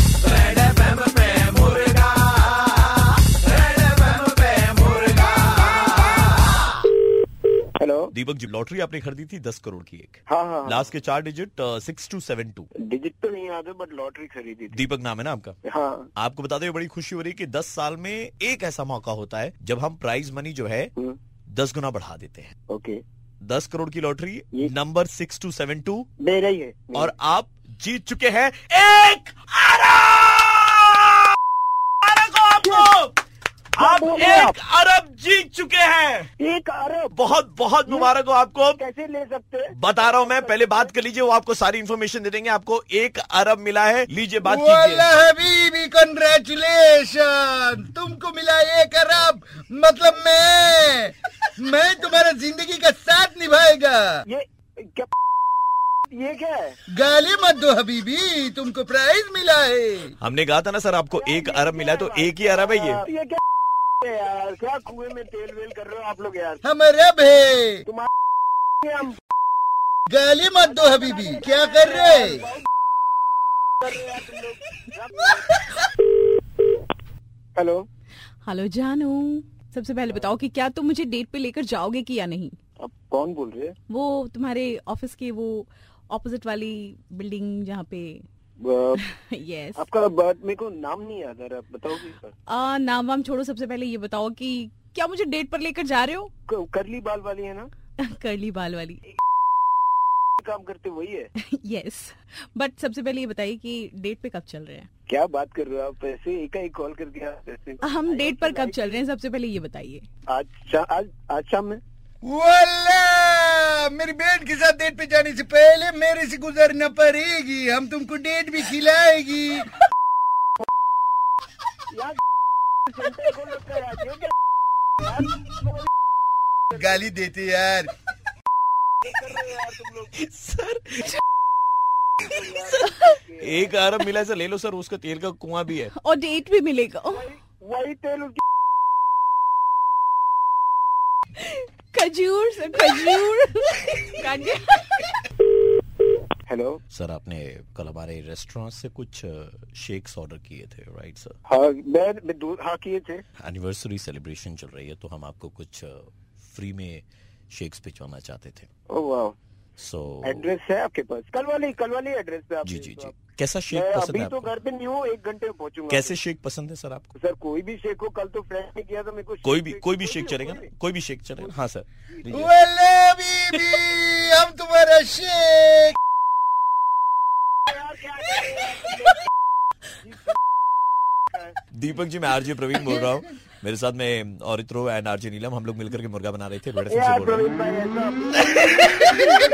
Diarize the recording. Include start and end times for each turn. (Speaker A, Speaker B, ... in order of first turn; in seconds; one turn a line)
Speaker A: 0.3-2.4
Speaker A: 3.4-5.6
Speaker B: 7.8-8.1
Speaker A: 8.1-12.7
Speaker B: 10.3-10.9
Speaker B: 12.8-14.8
Speaker A: 14.7-15.6
Speaker B: 15.7-16.1
Speaker A: 16.1-20.9
Speaker A: 21.5-22.5
Speaker B: 22.7-23.0
Speaker A: 23.4-26.1
Speaker B: 26.2-27.1
Speaker A: 26.9-31.3
Speaker A: 32.0-33.1
Speaker B: 32.6-32.9
Speaker A: 33.8-36.3
Speaker B: 33.8-34.6
Speaker B: 36.4-37.1
Speaker A: 37.1-38.8
Speaker B: 37.9-38.1
Speaker B: 38.8-40.9
Speaker A: 39.7-45.1
Speaker C: 44.4-54.2
Speaker B: 54.3-55.1
Speaker B: 56.1-56.8
Speaker C: 56.9-60.1
Speaker A: 60.2-63.0
Speaker B: 61.1-63.4
Speaker B: 64.0-66.6
Speaker C: 66.6-67.8
Speaker B: 68.8-69.2
Speaker C: 70.1-72.5
Speaker B: 70.6-72.6
Speaker B: 73.8-75.4
Speaker B: 77.5-77.8
Speaker D: 78.4-82.6
Speaker B: 82.8-83.7
Speaker D: 83.9-88.2
Speaker B: 88.6-89.0
Speaker D: 89.0-89.8
Speaker B: 89.8-92.3
Speaker D: 92.5-96.3
Speaker B: 96.5-97.7
Speaker D: 98.0-99.0
Speaker B: 100.4-101.3
Speaker D: 101.4-104.9
Speaker B: 105.1-109.0
Speaker D: 107.8-110.0
Speaker B: 110.3-111.8
Speaker C: 112.2-119.7
Speaker B: 122.9-124.3
Speaker B: 125.0-125.8
Speaker C: 126.7-127.9
Speaker B: 129.0-130.1
Speaker A: 130.1-131.2
Speaker B: 132.2-133.8
Speaker A: 132.2-135.9
Speaker D: 132.9-133.1
Speaker D: 135.9-137.3
Speaker B: 137.1-138.4
Speaker D: 141.3-145.2
Speaker B: 146.5-146.8
Speaker A: 146.9-151.3
Speaker B: 151.4-153.2
Speaker A: 153.4-158.7
Speaker B: 158.9-159.3
Speaker A: 159.8-160.5
Speaker B: 160.2-163.1
Speaker A: 162.6-164.5
Speaker B: 163.7-166.2
Speaker A: 165.9-167.1
Speaker B: 167.1-170.7
Speaker A: 169.4-172.5
Speaker C: 172.3-175.9
Speaker B: 177.7-179.2
Speaker B: 180.0-180.3
Speaker A: 181.7-187.4
Speaker B: 186.9-188.9